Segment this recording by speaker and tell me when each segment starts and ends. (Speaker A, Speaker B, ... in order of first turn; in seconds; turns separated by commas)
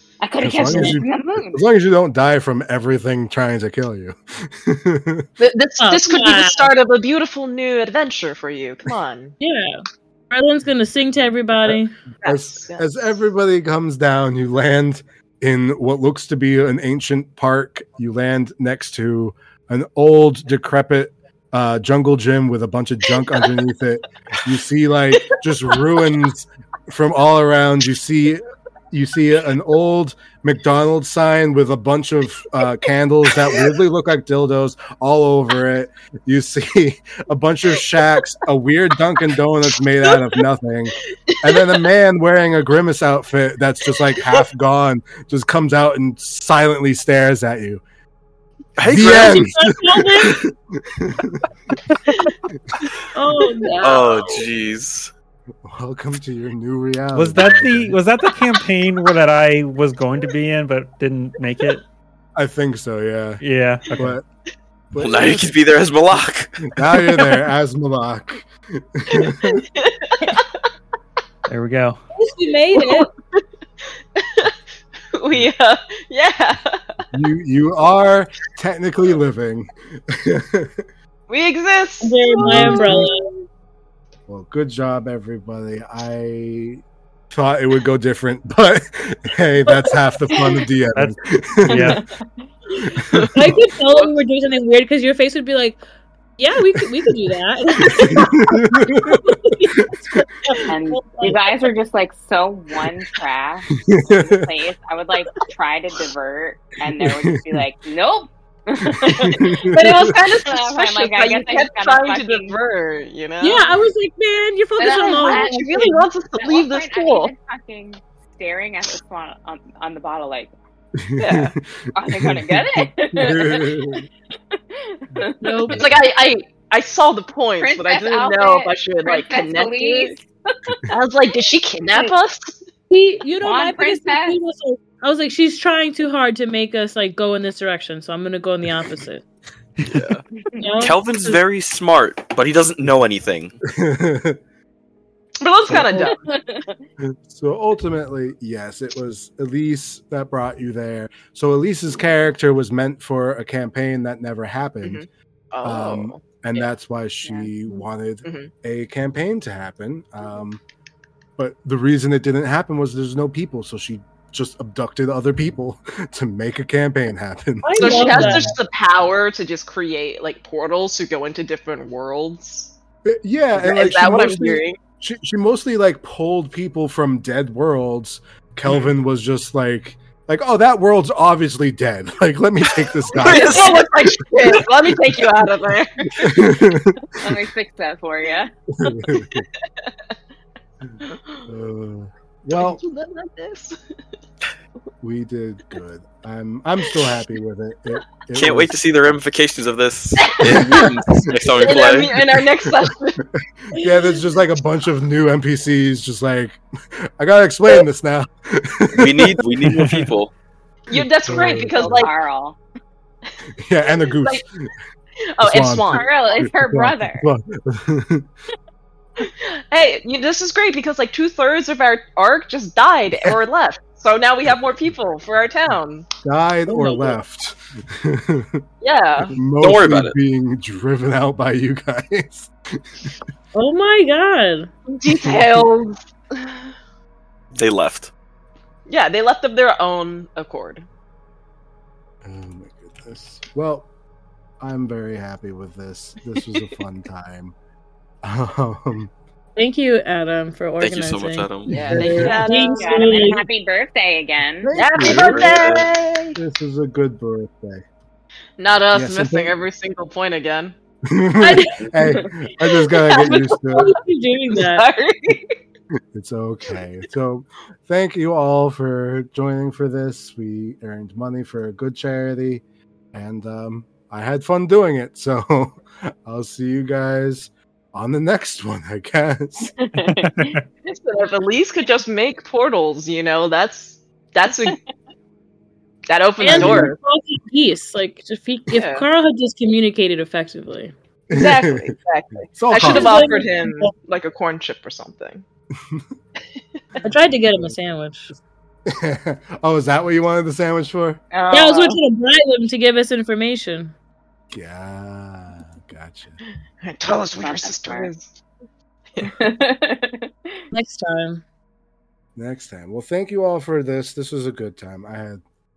Speaker A: 0.2-1.6, Speaker B: 0.4-5.3, Speaker C: 0.7-1.0, Speaker D: 5.4-9.3, Speaker C: 5.8-6.7, Speaker C: 9.4-12.0, Speaker B: 11.7-47.8, Speaker D: 12.2-12.9, Speaker D: 40.0-40.4, Speaker D: 41.3-41.8, Speaker E: 48.8-49.5, Speaker B: 48.9-51.5, Speaker C: 49.0-50.4, Speaker C: 53.1-54.4, Speaker E: 53.8-55.1, Speaker B: 55.6-58.0, Speaker F: 57.1-61.8, Speaker B: 62.4-63.4, Speaker F: 63.4-64.2, Speaker B: 64.0-64.2, Speaker B: 64.9-65.5, Speaker E: 65.0-67.0, Speaker B: 66.7-69.6, Speaker D: 69.1-70.5, Speaker F: 71.5-72.0, Speaker C: 72.2-73.1, Speaker D: 72.7-73.1, Speaker D: 74.2-74.5, Speaker D: 75.1-77.0, Speaker B: 77.1-80.7, Speaker D: 81.3-83.1, Speaker C: 82.0-83.3, Speaker B: 82.4-83.1, Speaker B: 84.3-92.0, Speaker F: 91.0-92.0, Speaker A: 91.7-92.3, Speaker B: 92.8-93.5, Speaker D: 93.0-93.3, Speaker C: 93.3-95.8, Speaker C: 96.4-101.5, Speaker D: 97.8-98.4, Speaker B: 97.9-99.9, Speaker A: 100.7-112.6, Speaker B: 103.8-104.5, Speaker B: 107.0-107.6, Speaker B: 108.8-110.2, Speaker D: 109.5-113.8, Speaker C: 113.4-116.0, Speaker A: 114.8-115.9, Speaker D: 115.1-117.3, Speaker A: 116.4-120.5, Speaker B: 121.0-124.1, Speaker A: 121.2-124.0, Speaker A: 124.5-125.8, Speaker C: 125.4-125.9, Speaker D: 125.7-130.1, Speaker A: 127.6-130.8, Speaker D: 130.9-132.6, Speaker A: 131.8-132.1, Speaker C: 132.9-139.3, Speaker A: 133.4-134.4, Speaker E: 139.8-140.2, Speaker C: 140.6-141.4, Speaker E: 140.8-143.6, Speaker B: 143.7-144.4, Speaker D: 145.4-146.2, Speaker B: 145.7-146.2, Speaker A: 146.0-146.8, Speaker B: 147.0-155.1, Speaker D: 154.8-156.2, Speaker B: 155.6-160.6, Speaker A: 157.2-157.5, Speaker D: 158.2-158.5, Speaker B: 161.4-168.6, Speaker C: 167.6-168.5, Speaker D: 167.8-172.7, Speaker B: 173.1-183.8, Speaker D: 173.6-174.8, Speaker D: 183.1-186.3, Speaker E: 183.2-183.8, Speaker B: 186.2-187.3, Speaker A: 187.2-188.5, Speaker B: 188.7-189.5, Speaker D: 191.0-191.4, Speaker B: 191.5-192.8, Speaker D: 192.6-193.8, Speaker B: 195.0-198.8, Speaker E: 198.3-202.2, Speaker D: 200.2-200.9, Speaker B: 200.4-201.6, Speaker D: 201.6-203.2, Speaker B: 203.7-210.0, Speaker E: 208.9-210.3, Speaker D: 210.9-212.1, Speaker B: 210.9-212.0, Speaker A: 211.4-212.6, Speaker B: 213.6-214.7, Speaker D: 214.1-214.4, Speaker D: 215.3-216.1, Speaker B: 215.4-218.3, Speaker A: 215.9-217.3, Speaker D: 219.2-226.1, Speaker B: 226.2-228.6, Speaker C: 226.7-227.2, Speaker D: 228.8-229.4, Speaker B: 229.3-232.5, Speaker E: 229.6-230.2, Speaker C: 233.5-234.7, Speaker D: 234.9-236.6, Speaker B: 235.2-235.7, Speaker E: 237.6-238.1, Speaker D: 238.9-240.8, Speaker B: 242.2-243.9, Speaker B: 244.6-247.5, Speaker B: 248.2-249.1, Speaker C: 249.6-253.5, Speaker E: 250.8-251.8, Speaker D: 251.7-253.3, Speaker B: 251.7-252.4, Speaker A: 252.4-254.7, Speaker B: 254.6-255.7, Speaker D: 254.8-256.4, Speaker E: 255.0-255.9, Speaker B: 256.4-257.8, Speaker D: 258.6-260.8, Speaker B: 258.9-259.5, Speaker B: 261.1-263.9, Speaker C: 261.4-262.3, Speaker D: 262.9-263.5, Speaker C: 263.2-264.9, Speaker D: 264.5-265.5, Speaker B: 266.1-279.7, Speaker A: 279.8-280.6, Speaker F: 280.1-280.6, Speaker D: 280.8-284.8, Speaker D: 286.1-287.0, Speaker C: 286.4-290.9, Speaker B: 286.5-286.9, Speaker D: 288.7-289.1, Speaker B: 291.3-291.9, Speaker D: 291.3-295.4, Speaker B: 292.5-293.4, Speaker C: 292.8-293.9, Speaker C: 297.0-298.3, Speaker B: 298.3-301.2, Speaker A: 301.3-302.0, Speaker C: 301.5-303.9, Speaker B: 304.5-306.4, Speaker D: 306.8-308.3, Speaker A: 307.4-308.1, Speaker A: 309.2-310.3, Speaker C: 310.7-311.4, Speaker B: 312.4-315.4